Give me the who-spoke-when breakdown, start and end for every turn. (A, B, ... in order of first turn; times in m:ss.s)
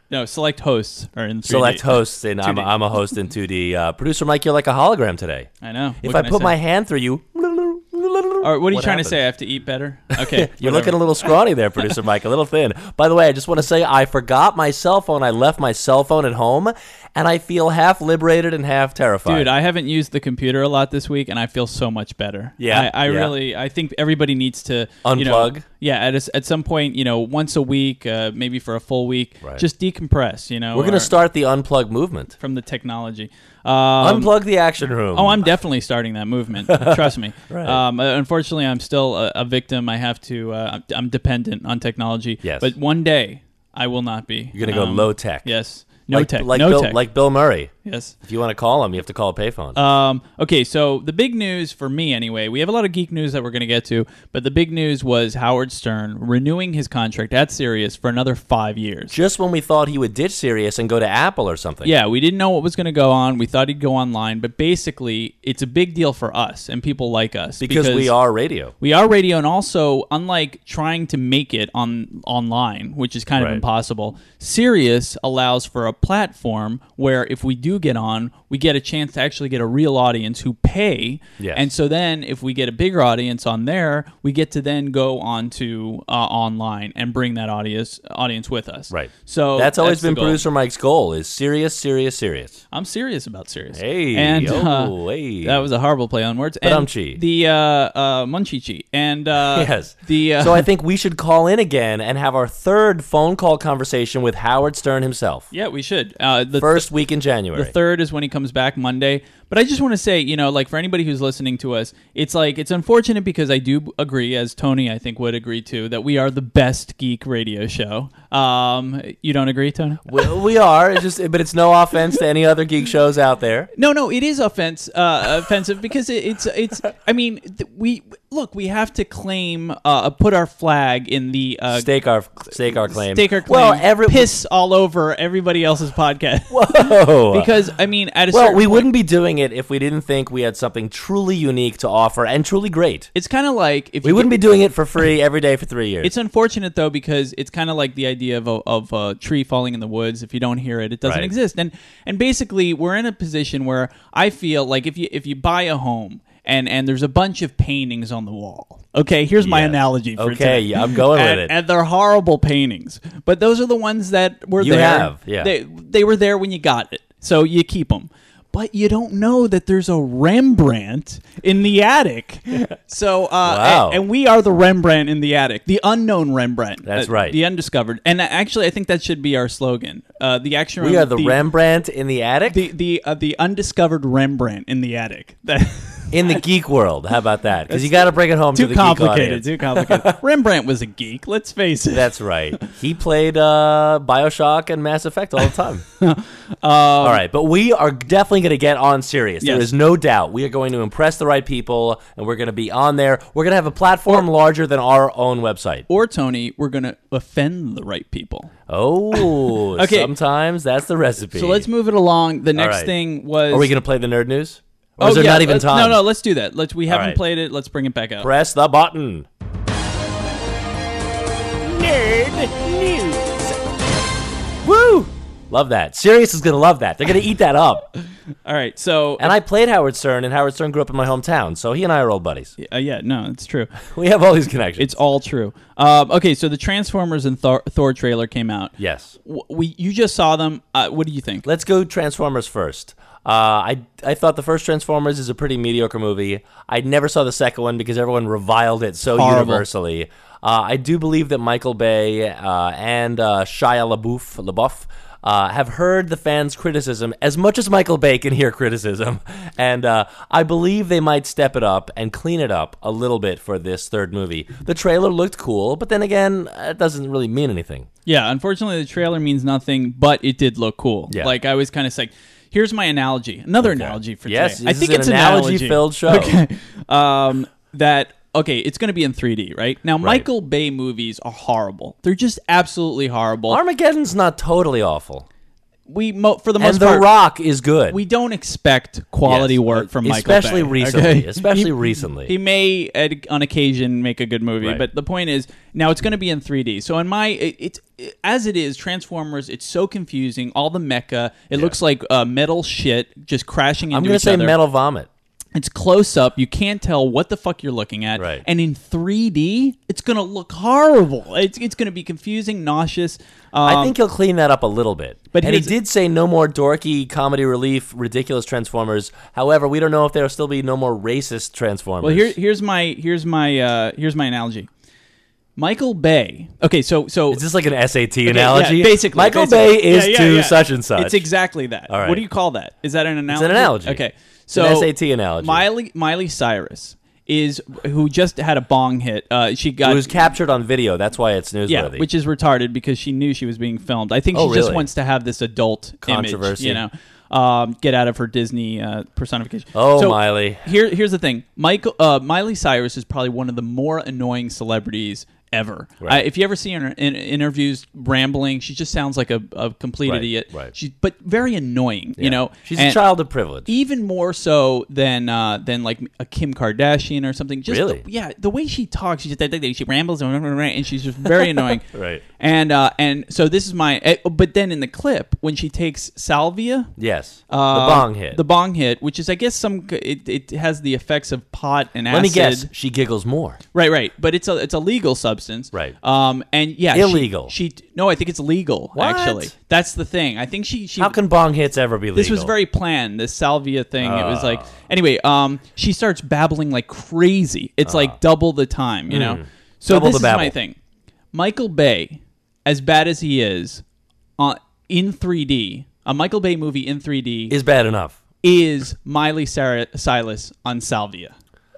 0:00.1-0:02.7 A
0:01.4-0:05.5 B
0:05.6-0:06.6 A
0:06.0-0:09.2 B
0:08.4-0:11.1 A
0:10.1-0:19.5 B
0:19.2-0:31.1 A
0:22.6-0:23.3 B
0:25.0-0:25.6 B
0:30.7-0:32.3 B
0:32.4-0:34.3 A
0:34.0-0:35.5 B
0:35.1-0:47.0 A
0:36.7-0:37.8 B
0:42.4-0:42.7 B
0:44.5-0:45.5 B
0:46.1-0:47.7 B
0:47.8-0:48.1 A
0:48.2-0:49.8 B
0:49.8-0:59.1 A
0:59.1-1:01.9 B
1:01.8-1:08.2 A
1:07.6-1:08.7 B
1:08.8-1:30.4 A
1:13.4-1:13.6 B
1:21.4-1:21.6 B
1:28.9-1:32.6 B
1:32.7-1:40.7 A
1:33.7-1:35.6 B
1:36.6-1:37.2 B
1:39.5-1:45.5 B
1:45.5-1:46.9 A
1:46.6-1:47.7 B
1:47.5-2:00.2 A
2:00.0-2:03.7 B
2:03.8-2:11.9 A
2:11.7-2:14.3 B
2:12.5-2:18.9 A
2:16.5-2:17.5 B
2:18.3-2:23.1 B
2:23.1-2:25.0 A
2:24.0-2:26.1 B
2:26.0-3:01.4 A
2:31.0-2:31.3 B
2:39.4-2:41.5 B
2:44.6-2:45.5 B
2:53.4-2:54.0 B
2:56.8-2:57.4 B
3:00.8-3:02.6 B
3:02.5-3:06.4 A
3:06.1-3:10.2 B
3:07.7-3:12.6 A
3:11.9-3:15.8 B
3:16.0-3:17.2 A
3:17.0-3:25.8 B
3:19.4-3:19.7 A
3:25.9-3:28.5 A
3:28.7-3:31.7 B
3:29.8-3:30.1 A
3:31.3-3:33.7 A
3:32.5-3:32.9 B
3:33.5-3:36.0 B
3:35.0-3:38.3 A
3:36.9-3:37.2 B
3:38.2-3:39.3 B
3:41.8-3:43.4 B
3:44.6-3:47.9 B
3:48.4-3:49.4 A
3:49.2-3:52.5 B
3:52.6-3:53.8 A
3:53.8-3:54.9 B
3:54.8-4:01.4 A
3:58.8-3:59.1 B
4:01.4-4:27.9 B
4:09.1-4:09.6 A
4:28.0-4:43.6 A
4:33.6-4:36.4 B
4:40.0-4:40.3 B
4:43.5-4:45.2 B
4:45.9-4:47.1 A
4:46.6-4:48.0 B
4:47.9-5:04.6 A
4:49.2-4:52.3 B
5:03.9-5:05.1 B
5:05.5-5:13.9 A
5:08.2-5:08.4 B
5:13.6-5:22.3 B
5:15.3-5:15.7 A
5:22.0-5:24.7 A
5:25.6-5:27.4 A
5:27.3-5:31.2 B
5:28.2-5:40.2 A
5:31.9-5:32.2 B
5:33.3-5:34.0 B
5:34.5-5:35.6 B
5:39.8-5:42.0 B
5:41.7-6:03.0 A
5:44.3-5:44.9 B
5:46.0-5:46.8 B
5:49.7-5:50.6 B
6:00.0-6:00.7 B
6:02.2-6:03.7 B
6:03.6-6:11.9 A
6:07.7-6:08.0 B
6:11.9-6:12.2 B
6:12.4-6:16.9 A
6:17.0-6:18.4 B
6:17.5-6:22.7 A
6:22.1-6:23.6 B
6:23.7-6:31.2 A
6:26.9-6:27.5 B
6:28.9-6:29.5 B
6:31.0-6:32.5 B
6:32.1-6:40.8 A
6:34.0-6:34.7 B
6:37.8-6:38.2 B
6:39.1-6:40.5 B
6:41.3-6:43.8 A
6:44.4-6:47.6 A
6:47.5-6:48.2 B
6:48.4-6:51.3 A